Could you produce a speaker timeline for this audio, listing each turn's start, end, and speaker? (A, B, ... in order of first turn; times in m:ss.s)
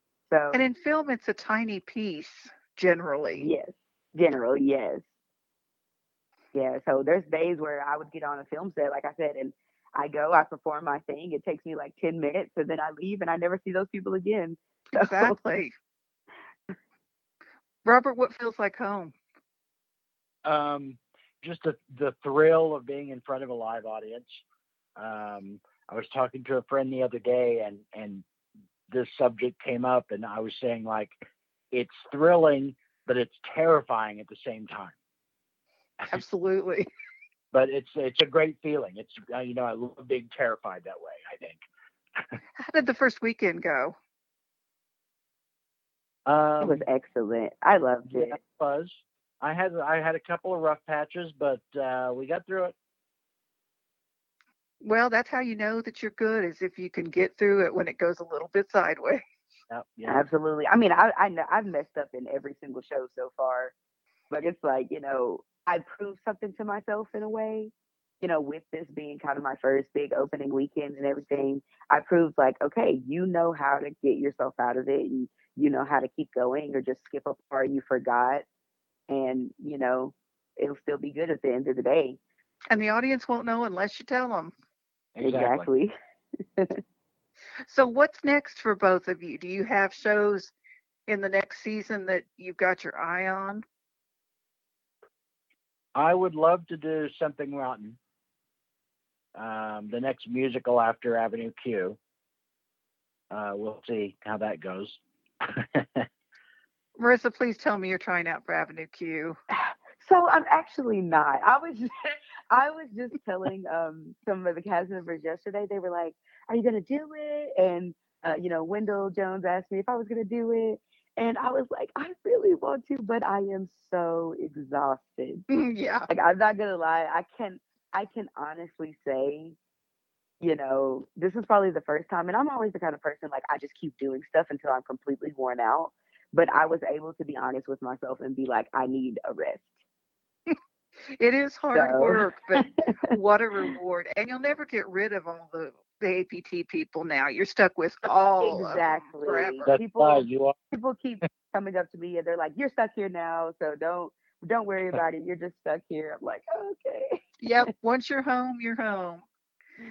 0:00.3-0:00.6 A
0:00.5-0:03.5 B
0:03.4-0:05.1 A
0:06.5-0:15.4 A
0:14.9-0:15.7 B
0:17.8-0:19.1 B
0:20.4-0:24.4 C
0:25.0-0:28.2 C
0:28.9-0:31.2 C
0:31.7-0:34.9 C
0:36.1-0:36.8 B
0:37.5-0:41.6 C
0:42.6-0:44.0 B
0:46.2-0:46.8 C
0:46.6-0:48.4 A
0:48.1-0:52.7 C
0:54.8-0:59.2 B
0:59.7-1:00.2 C
1:00.0-1:03.7 A
1:04.3-1:18.4 A
1:19.1-1:22.2 A
1:22.7-1:24.5 B
1:25.1-1:25.7 C
1:25.2-1:25.9 A
1:27.6-1:30.5 B
1:31.1-1:33.6 B
1:36.0-1:38.0 C
1:39.4-1:42.0 C
1:43.3-1:45.0 C
1:45.5-1:46.0 C
1:47.0-1:49.4 B
1:49.6-1:51.9 A
1:52.5-2:05.4 A
2:05.5-2:06.1 B
2:06.1-2:09.6 A
2:10.4-2:19.7 A
2:21.1-2:29.7 B
2:21.7-2:22.6 A
2:28.4-2:37.3 A
2:29.7-2:30.6 C
2:37.4-2:39.2 B